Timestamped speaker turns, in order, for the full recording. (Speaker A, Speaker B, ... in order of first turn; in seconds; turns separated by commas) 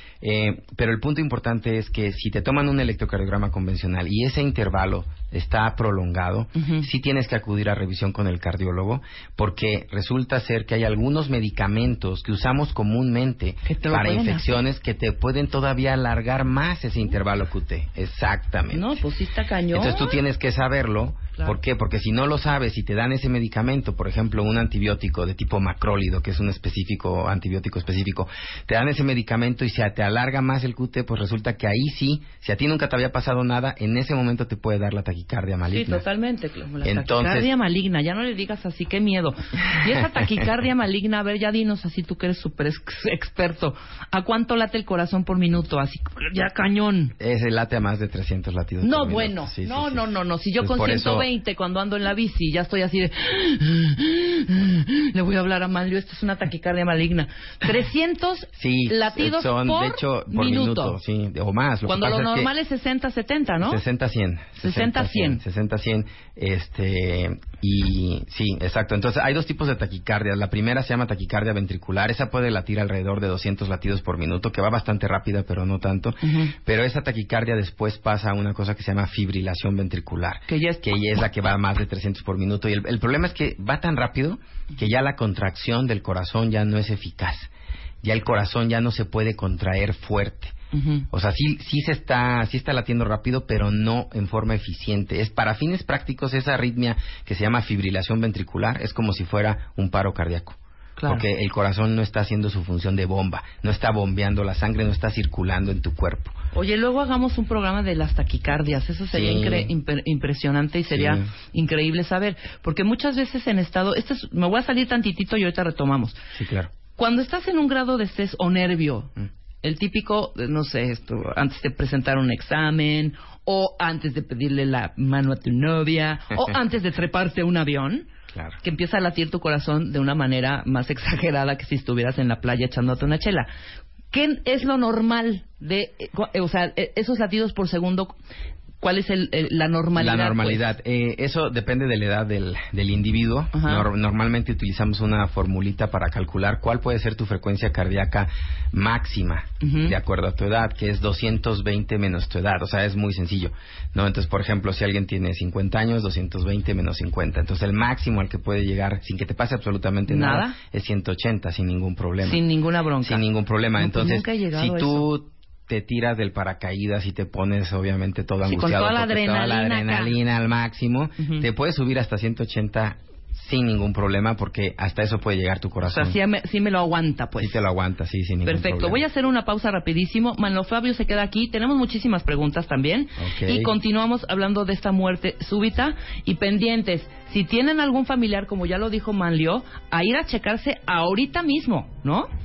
Speaker A: 0.2-19.0, Speaker B: 6.5-6.9, Speaker B: 13.7-14.6, Speaker B: 18.7-20.2, Speaker A: 19.7-36.0, Speaker B: 35.7-47.1, Speaker A: 36.8-37.5, Speaker A: 47.2-50.0, Speaker B: 48.8-61.0, Speaker A: 50.6-51.3, Speaker A: 58.5-62.5, Speaker B: 61.8-63.8, Speaker A: 63.6-87.5, Speaker B: 64.6-65.4, Speaker B: 76.2-76.5, Speaker B: 80.5-80.9, Speaker A: 88.0-90.5, Speaker B: 90.7-91.1, Speaker A: 91.1-106.4, Speaker B: 101.0-101.2, Speaker B: 106.5-116.2, Speaker A: 109.1-109.7, Speaker A: 110.9-111.3, Speaker A: 116.3-116.7, Speaker B: 117.0-128.1, Speaker A: 128.3-128.6, Speaker B: 128.6-133.5, Speaker B: 134.1-138.1, Speaker B: 138.8-140.7, Speaker A: 139.9-162.4, Speaker B: 143.5-143.9, Speaker B: 149.6-149.9, Speaker B: 160.1-160.6, Speaker B: 162.2-163.2, Speaker A: 163.0-176.2, Speaker B: 163.8-165.1, Speaker B: 168.4-170.1, Speaker B: 171.2-171.4, Speaker B: 175.8-177.6, Speaker A: 177.4-179.0, Speaker B: 178.4-192.3, Speaker A: 183.2-183.7